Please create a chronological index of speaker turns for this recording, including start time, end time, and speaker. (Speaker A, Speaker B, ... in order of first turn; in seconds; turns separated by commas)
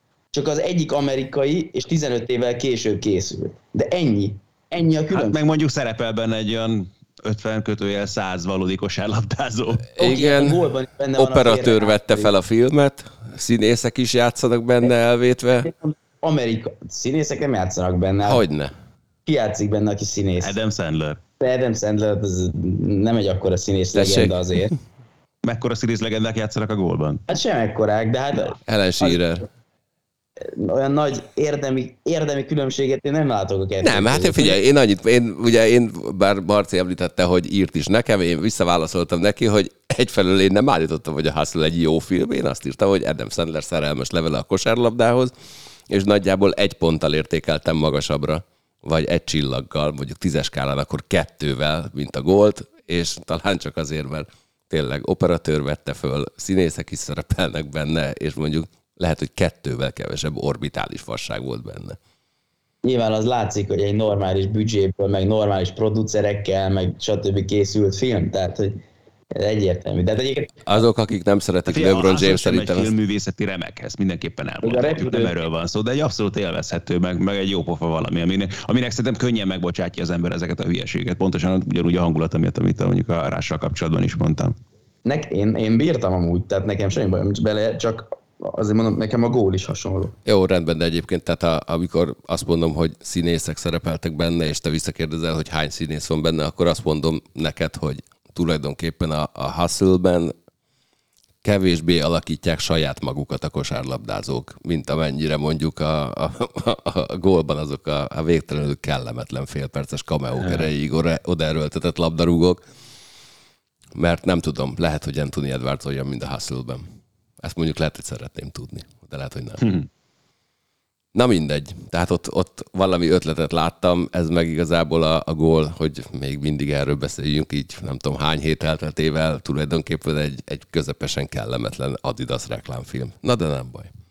Speaker A: 0.3-5.4, Speaker B: 5.1-9.9, Speaker C: 9.9-15.7, Speaker A: 10.0-12.3, Speaker A: 15.7-18.4, Speaker C: 18.2-18.7, Speaker A: 19.2-20.5, Speaker B: 20.4-21.2, Speaker A: 21.4-24.7, Speaker C: 23.9-24.4, Speaker B: 25.4-27.2, Speaker A: 27.3-29.2, Speaker C: 28.6-29.5, Speaker A: 30.4-34.6, Speaker C: 33.8-45.3, Speaker C: 45.9-62.0, Speaker A: 62.8-68.8, Speaker A: 69.3-70.6, Speaker C: 70.7-72.9, Speaker B: 71.7-84.5, Speaker A: 74.6-75.3, Speaker A: 85.0-90.1, Speaker C: 90.2-100.3, Speaker C: 101.4-112.6, Speaker C: 113.9-116.8, Speaker C: 117.4-119.7, Speaker B: 119.6-119.9, Speaker C: 121.1-133.9